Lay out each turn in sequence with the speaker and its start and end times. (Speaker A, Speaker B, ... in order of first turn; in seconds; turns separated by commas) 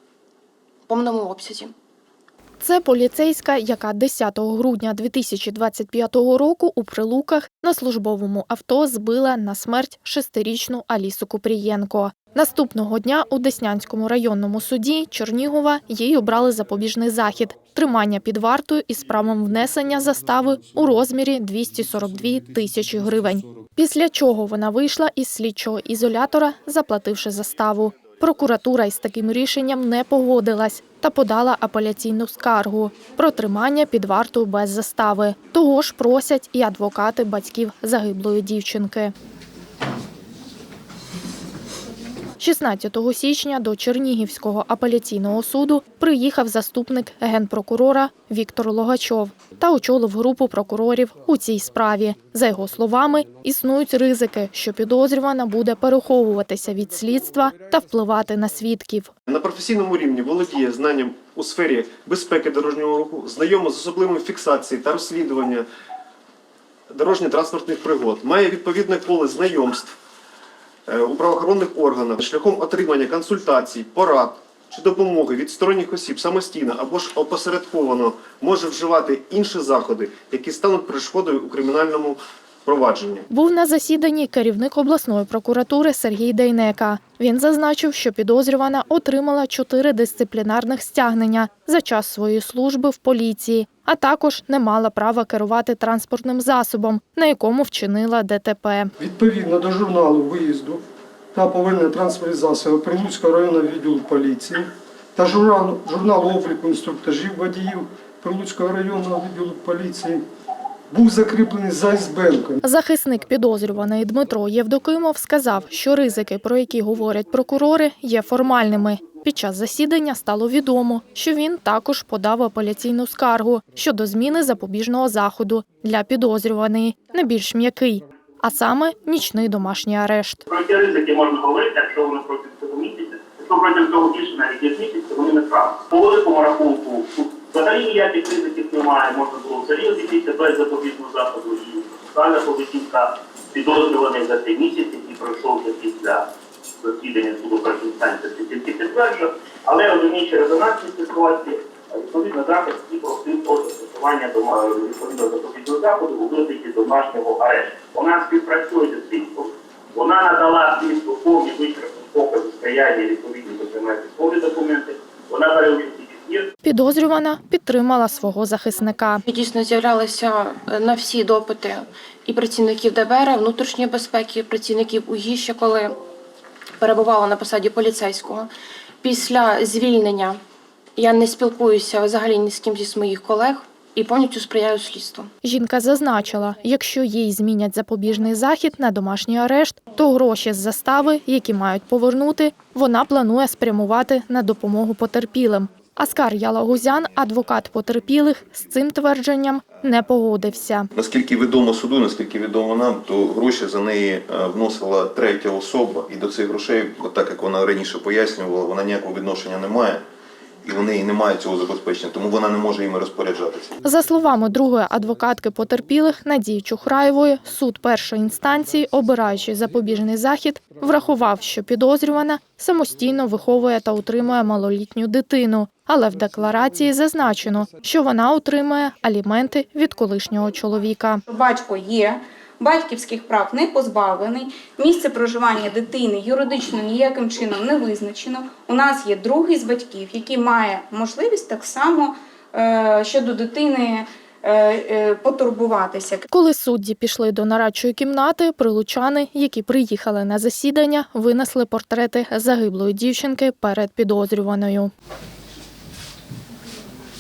Speaker A: 0.9-1.7, Speaker B: 2.6-39.1, Speaker B: 42.4-59.1, Speaker C: 59.3-65.6, Speaker C: 66.9-70.0, Speaker C: 70.9-83.2, Speaker B: 83.3-98.9, Speaker D: 99.0-100.8, Speaker D: 101.3-110.2, Speaker D: 110.9-112.6, Speaker B: 112.6-130.4, Speaker E: 130.5-146.3, Speaker E: 146.8-166.5, Speaker B: 166.6-169.2, Speaker A: 169.3-176.0, Speaker A: 176.8-178.5, Speaker A: 179.0-180.4, Speaker A: 181.0-185.3, Speaker B: 185.4-200.9, Speaker F: 200.9-210.0, Speaker F: 210.6-213.7, Speaker B: 213.8-231.2, Speaker G: 231.3-246.3, Speaker B: 246.3-254.9